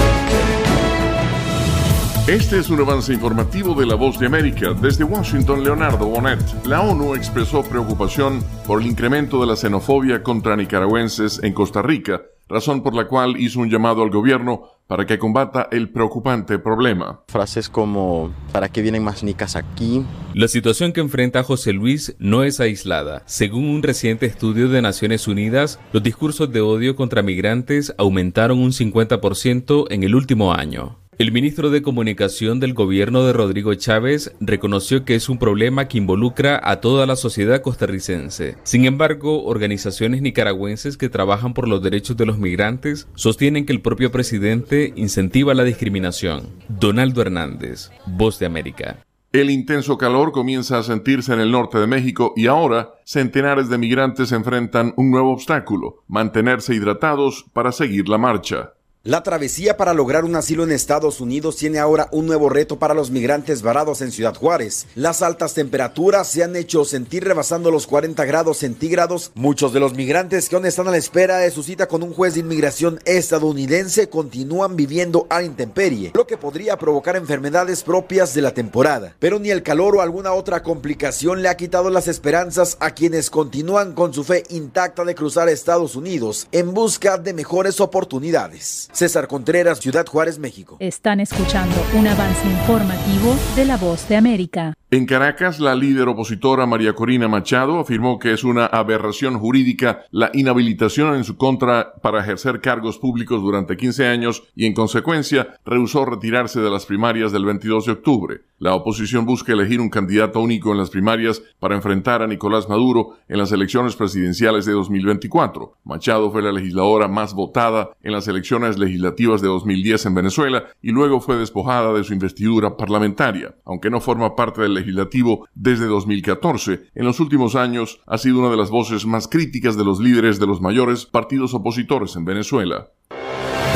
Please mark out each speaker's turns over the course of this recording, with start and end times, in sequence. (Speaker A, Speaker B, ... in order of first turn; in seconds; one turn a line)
Speaker A: 2.3-17.2
Speaker B: 17.3-20.1
Speaker C: 20.3-49.0
Speaker A: 49.3-58.7
Speaker D: 59.1-90.8
Speaker E: 90.8-94.8
Speaker A: 94.9-132.9